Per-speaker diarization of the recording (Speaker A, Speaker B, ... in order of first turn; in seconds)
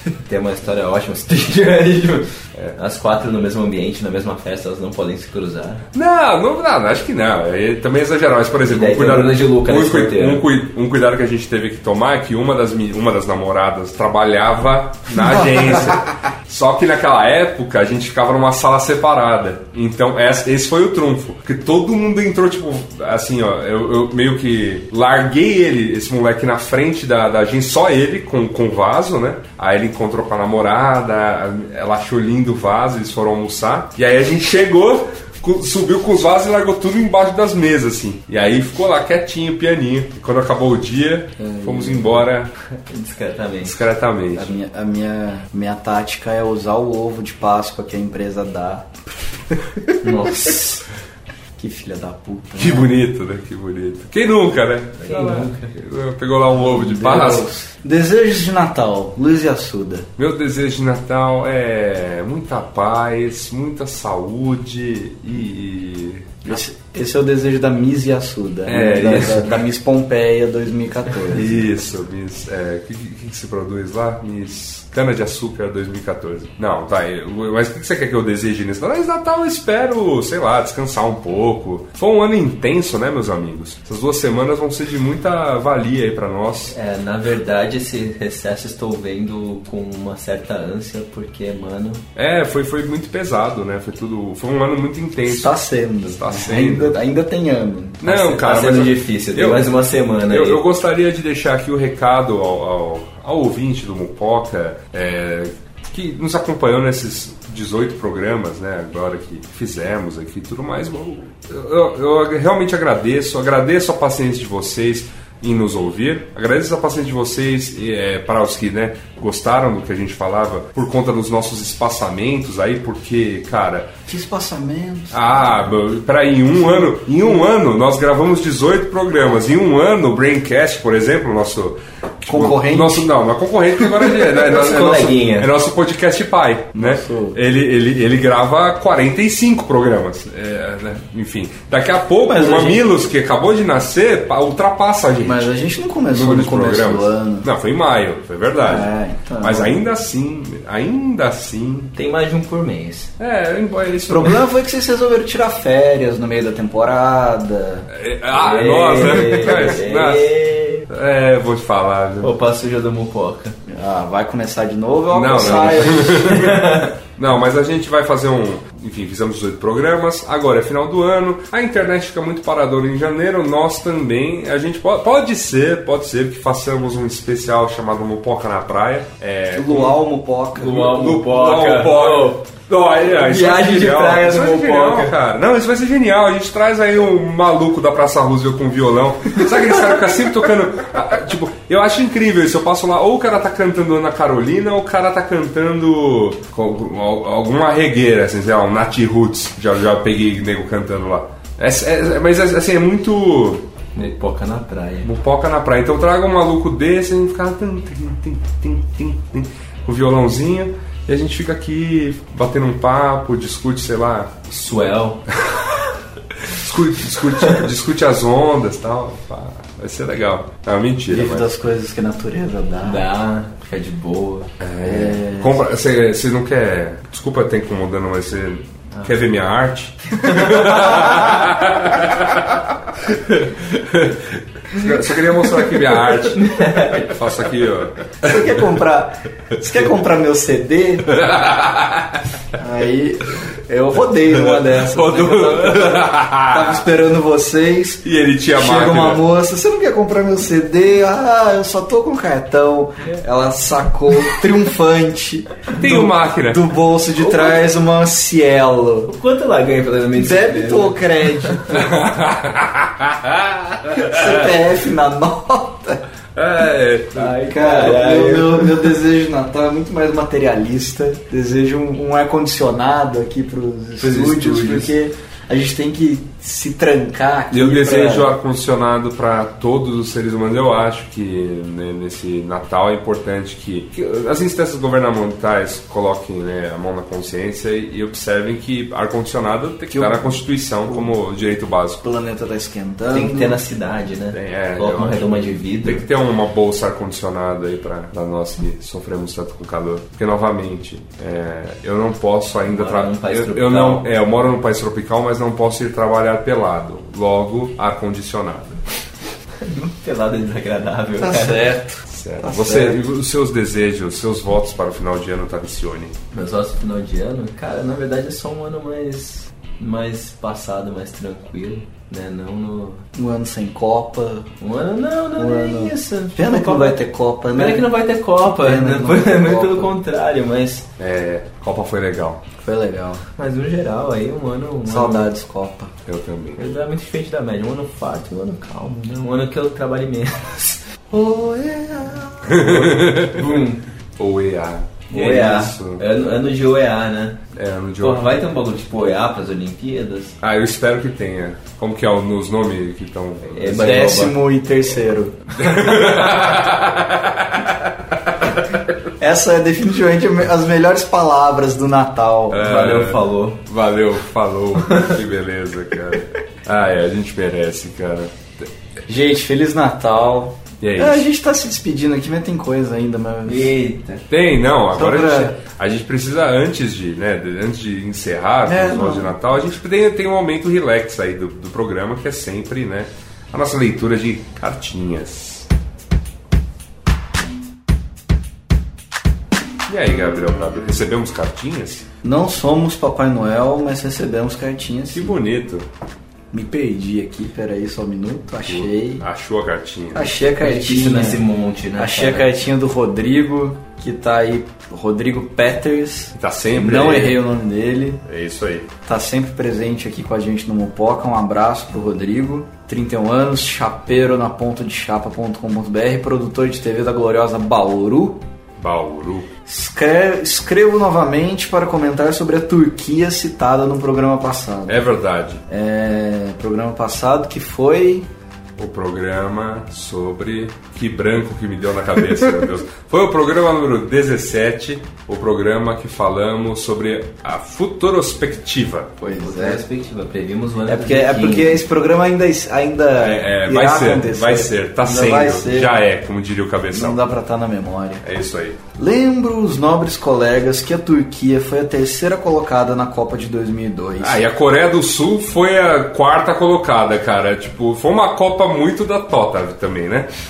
Speaker A: 0.2-5.8, 8.7-10.4, 42.9-43.8, 50.0-50.8, 55.0-55.7, 86.7-92.0, 98.0-100.6, 134.2-135.5, 151.9-153.1, 158.3-160.9, 162.2-163.6, 165.4-166.9, 180.5-182.4, 183.1-185.1, 203.9-205.1, 214.5-215.2, 222.8-224.5, 230.3-231.4, 236.1-237.3, 259.1-261.5, 267.1-268.9, 274.0-274.9, 293.1-296.1, 302.7-304.1, 309.6-311.7, 316.3-323.0, 324.6-327.0, 327.5-330.8, 333.4-335.3, 336.6-343.8, 345.1-347.4, 348.0-350.4, 353.5-354.4, 362.6-363.6, 373.4-374.2, 400.6-402.5, 439.2-441.8
Speaker B: 5.9-42.5, 43.6-44.5, 52.5-57.5, 60.2-66.5, 68.6-69.6, 71.2-86.7, 92.2-97.0, 98.0-99.7, 100.3-123.9, 125.1-145.5, 146.1-151.9, 153.2-154.4, 157.9-160.3, 160.9-162.3, 165.1-180.0, 180.6-204.0, 205.0-214.5, 216.4-221.5, 224.6-238.6, 241.1-242.2, 244.3-246.8, 248.0-249.2, 255.8-256.7, 261.7-264.5, 266.3-267.3, 277.5-292.0, 294.3-308.8, 312.1-316.1, 331.0-332.4, 336.1-336.6, 342.5-343.6, 344.2-346.0, 347.5-348.3, 350.4-354.0, 355.6-358.6, 362.5-368.7, 370.8-371.2, 374.3-385.7, 389.9-392.1, 395.1-395.9, 398.6-400.4, 406.3-407.4, 408.2-408.9, 418.8-419.5, 424.9-425.6, 428.8-439.1, 443.2-447.3, 448.2-448.8, 454.2-460.3
Speaker C: 41.4-42.2, 44.3-48.9, 49.9-50.6, 51.6-52.9, 56.6-60.1, 66.4-71.7, 95.2-98.0, 124.1-125.8, 126.7-127.1, 132.3-133.1, 136.7-137.4, 142.3-142.8, 145.2-147.4, 148.6-149.8, 154.1-157.9, 163.7-166.5, 179.5-180.8, 221.1-223.0, 224.8-225.6, 238.2-241.2, 242.6-248.0, 248.6-259.1, 260.1-261.8, 263.9-266.0, 267.4-278.3, 289.9-291.1, 292.0-293.6, 311.2-313.0, 323.1-324.5, 325.4-327.9, 328.6-329.9, 332.6-333.2, 334.9-335.9, 353.8-355.6, 359.2-362.6, 369.1-373.7, 374.9-375.6, 378.6-379.4, 392.2-395.4, 396.5-399.2, 400.1-401.4, 401.9-408.2, 409.0-418.4, 419.6-425.1, 425.7-428.3, 439.2-439.8, 440.9-446.0, 446.9-448.2, 448.9-454.4